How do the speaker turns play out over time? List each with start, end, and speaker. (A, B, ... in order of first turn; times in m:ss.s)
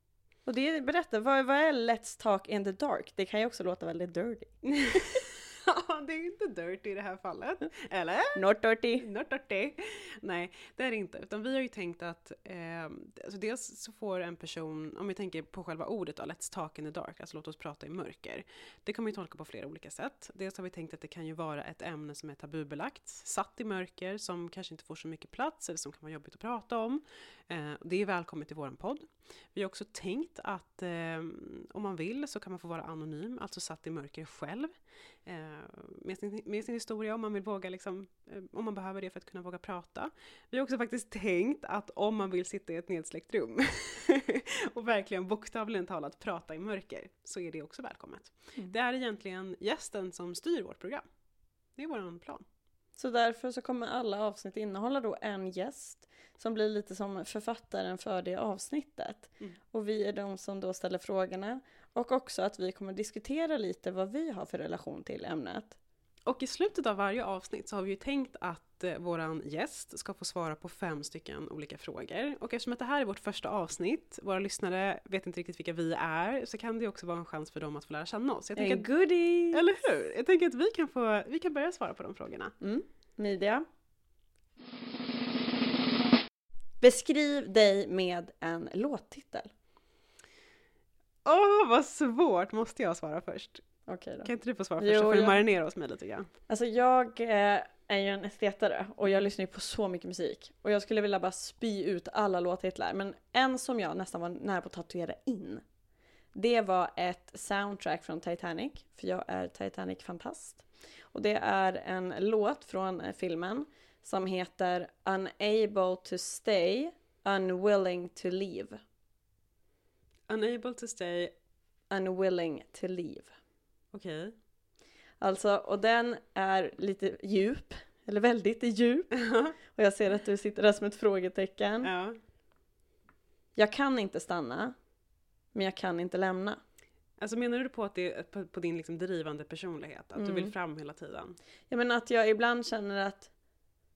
0:00.4-0:05.0 A
0:04.7-0:08.4 B
0:08.3-0:09.1 A
0:09.0-0:51.0 B
0:51.7-0:52.4 B
0:53.0-1:05.8 A
1:06.2-1:18.9 B
1:18.6-1:19.7 A
1:19.5-1:22.5 B
1:22.6-1:23.6 A
1:26.8-1:29.5 A
1:31.2-1:36.3 B
1:33.9-1:35.4 A
1:36.5-1:45.6 A
1:46.3-1:58.8 A
2:00.3-2:01.3 B
2:01.9-2:03.3 A
2:03.9-2:04.3 B
2:05.2-2:11.9 A
2:09.3-2:09.5 B
2:11.8-2:12.2 B
2:13.6-2:14.8 A
2:15.5-2:16.6 A
2:17.2-2:21.4 B
2:20.2-2:20.5 A
2:21.7-2:23.3 A